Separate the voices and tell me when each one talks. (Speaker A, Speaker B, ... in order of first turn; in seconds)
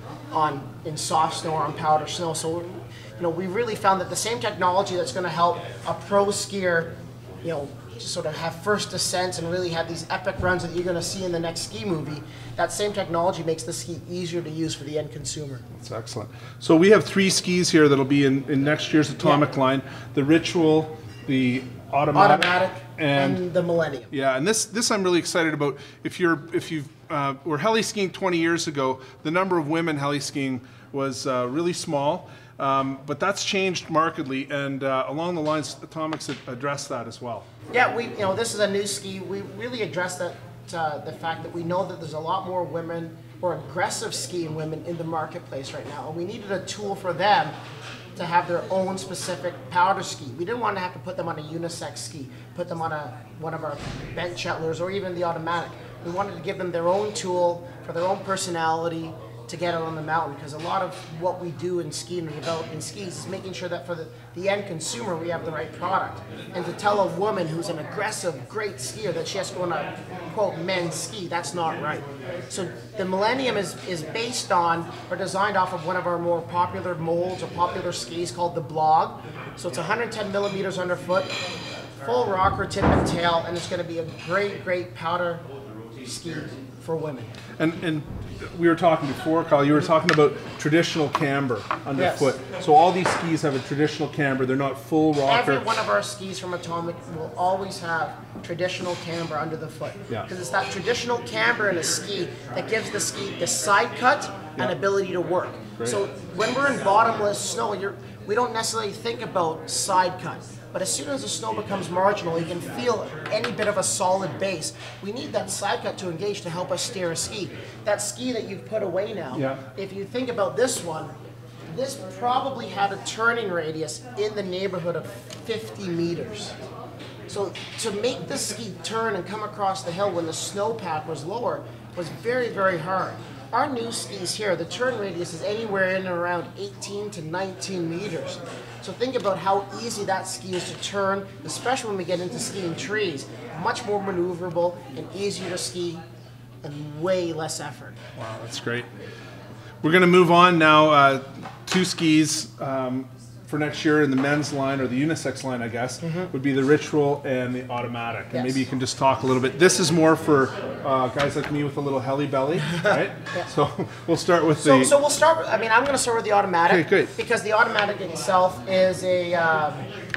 Speaker A: 0.3-15.6, 22.1-24.1, 37.7-47.5, 48.1-81.4, 82.0-85.4, 86.0-87.3, 92.0-92.3, 95.2-121.1, 121.7-126.5, 127.3-146.0, 146.6-148.0, 156.0-156.3, 158.3-158.6, 162.8-163.5, 164.6-169.8
Speaker B: 15.7-23.4, 24.1-37.5, 87.6-95.7, 119.3-119.6, 148.2-148.9, 149.8-164.9, 166.7-167.1